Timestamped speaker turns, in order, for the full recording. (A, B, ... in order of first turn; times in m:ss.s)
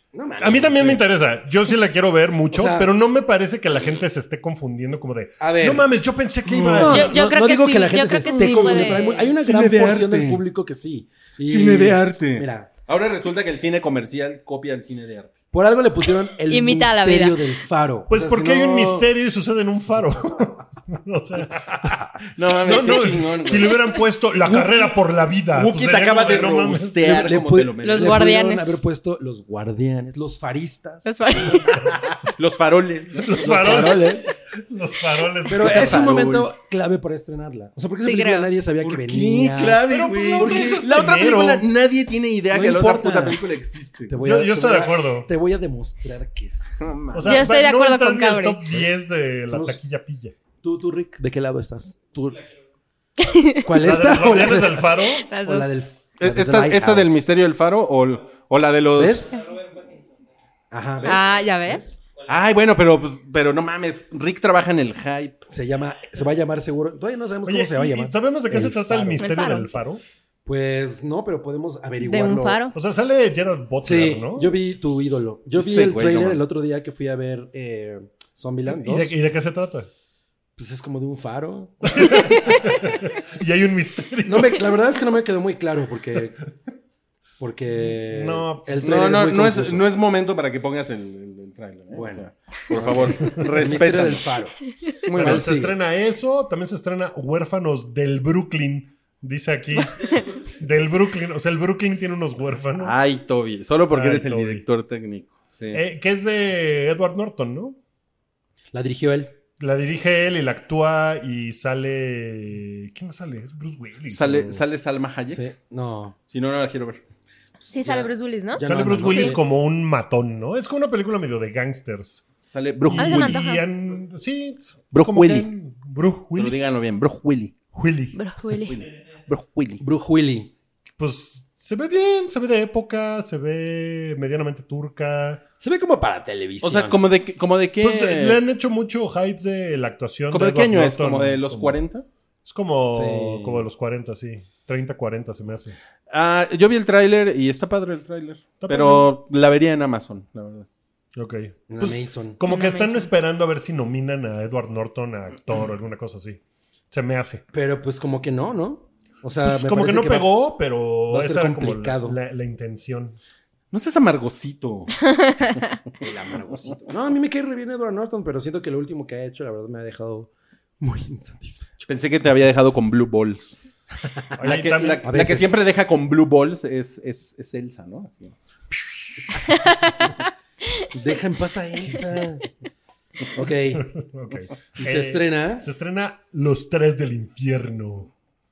0:00.1-0:01.0 A
0:00.4-0:07.2 B
0:02.5-0:02.9 A
0:05.4-0:05.9 A
0:06.5-0:12.7 A
0:06.5-0:07.1 C
0:06.9-0:09.2 D
0:08.3-0:10.4 C
0:11.4-0:15.3 C
0:15.5-0:19.1 A
0:16.5-0:17.4 D
0:18.1-0:27.3 B
0:22.2-0:23.9 C
0:24.4-0:24.8 C
0:25.5-0:28.3 C
0:27.0-0:31.1 A
0:27.8-0:28.8 D
0:31.0-0:31.9 D
0:32.2-0:34.0 C
0:33.2-0:36.1 B
0:33.4-0:34.3 A
0:35.4-0:40.9 A
0:35.5-0:36.5 C
0:38.0-0:38.5 D
0:38.8-0:44.2 C
0:39.8-0:41.6 B
0:42.5-0:43.4 A
0:44.1-0:46.8 A
0:44.2-0:45.3 B
0:46.8-0:47.4 C
0:47.1-0:50.3 B
0:47.2-0:48.6 D
0:49.5-0:49.8 A
0:50.6-0:52.4 A
0:53.2-0:53.6 D
0:53.6-0:57.1 A
0:53.8-0:55.3 B
0:55.2-0:55.7 D
0:56.2-0:59.4 C
0:59.0-0:59.4 A
1:00.7-1:01.9 A
1:01.0-1:01.8 D
1:02.3-1:05.4 C
1:05.5-1:09.5 A
1:07.4-1:10.0 B
1:09.2-1:09.7 D
1:10.4-1:12.6 A
1:12.0-1:12.7 D
1:12.7-1:14.6 B
1:13.8-1:19.2 A
1:15.6-1:16.4 C
1:18.7-1:19.9 B
1:20.6-1:22.4 A
1:21.9-1:24.7 B
1:24.2-1:26.4 A
1:27.4-1:29.8 A
1:27.9-1:29.1 B
1:28.8-1:34.3 C
1:31.9-1:35.8 A
1:35.0-1:35.4 C
1:35.1-1:43.0 B
1:42.8-1:45.8 C
1:43.9-1:44.6 B
1:45.7-1:47.8 B
1:48.7-1:49.3 A
1:49.6-1:54.6 B
1:54.1-1:55.4 C
1:55.3-1:56.2 A
1:56.3-1:57.0 C
1:57.7-1:59.3 D
1:57.8-1:59.4 A
1:58.6-2:02.2 B
2:02.5-2:03.4 C
2:02.8-2:06.6 B
2:03.0-2:03.6 D
2:04.9-2:05.5 C
2:06.4-2:07.6 C
2:07.7-2:08.2 B
2:08.1-2:08.8 D
2:08.6-2:09.8 C
2:09.8-2:10.5 A
2:11.0-2:15.4 B
2:15.6-2:17.0 A
2:16.6-2:18.4 C
2:17.8-2:21.8 B
2:20.3-2:22.0 C
2:22.4-2:25.8 B
2:22.8-2:23.7 A
2:26.1-2:30.7 C
2:28.6-2:29.1 B
2:31.2-2:36.4 B
2:31.7-2:32.4 A
2:32.4-2:33.1 D
2:36.9-2:37.4 B
2:37.5-2:40.3 A
2:39.4-2:43.2 B
2:41.1-2:42.2 A
2:43.7-2:46.4 C
2:46.0-2:51.9 A
2:51.8-2:53.6 C
2:54.4-2:55.1 B
2:54.4-2:58.3 C
2:55.0-2:55.7 A
2:59.5-3:00.1 D
3:00.9-3:02.4 A
3:03.3-3:03.9 A
3:03.8-3:08.1 B
3:04.8-3:05.7 A